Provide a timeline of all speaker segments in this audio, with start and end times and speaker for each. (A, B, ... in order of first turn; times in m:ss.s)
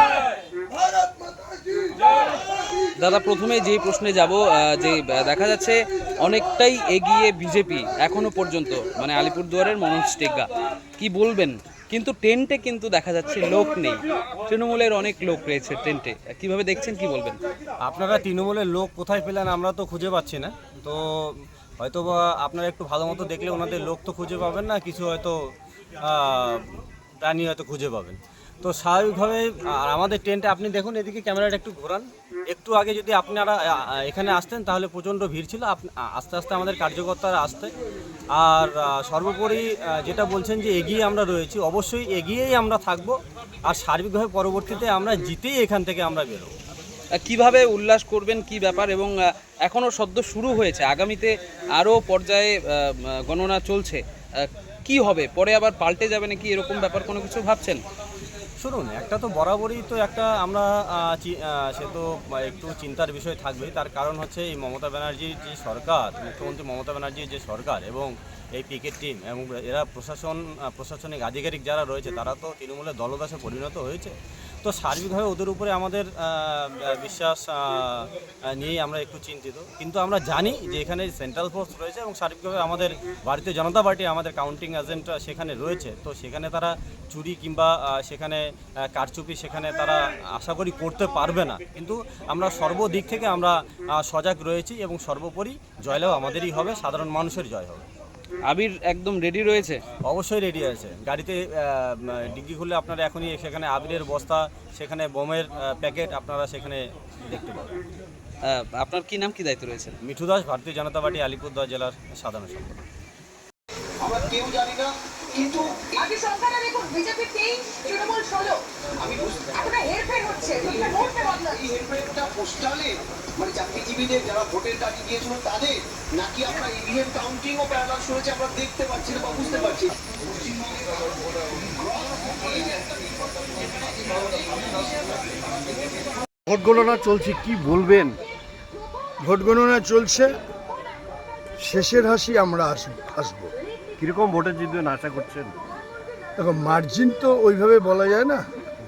0:03.0-0:17.4 A
0:17.8-0:25.4 B
0:26.0-0:37.7 B
0:38.3-0:46.6 B
0:47.2-0:57.8 A
0:58.6-1:37.9 B
1:38.5-1:39.8 A
1:40.0-1:47.8 B
1:48.4-1:50.0 A
1:50.0-1:52.9 B
1:54.0-1:56.1 C
1:56.0-1:58.6 D
1:59.0-1:59.9 C
1:59.6-2:01.6 D
2:00.5-2:16.0 C
2:16.5-2:18.2 E
2:19.2-2:20.3 F
2:21.6-2:23.5 F
2:24.0-2:25.6 E
2:26.4-2:28.4 F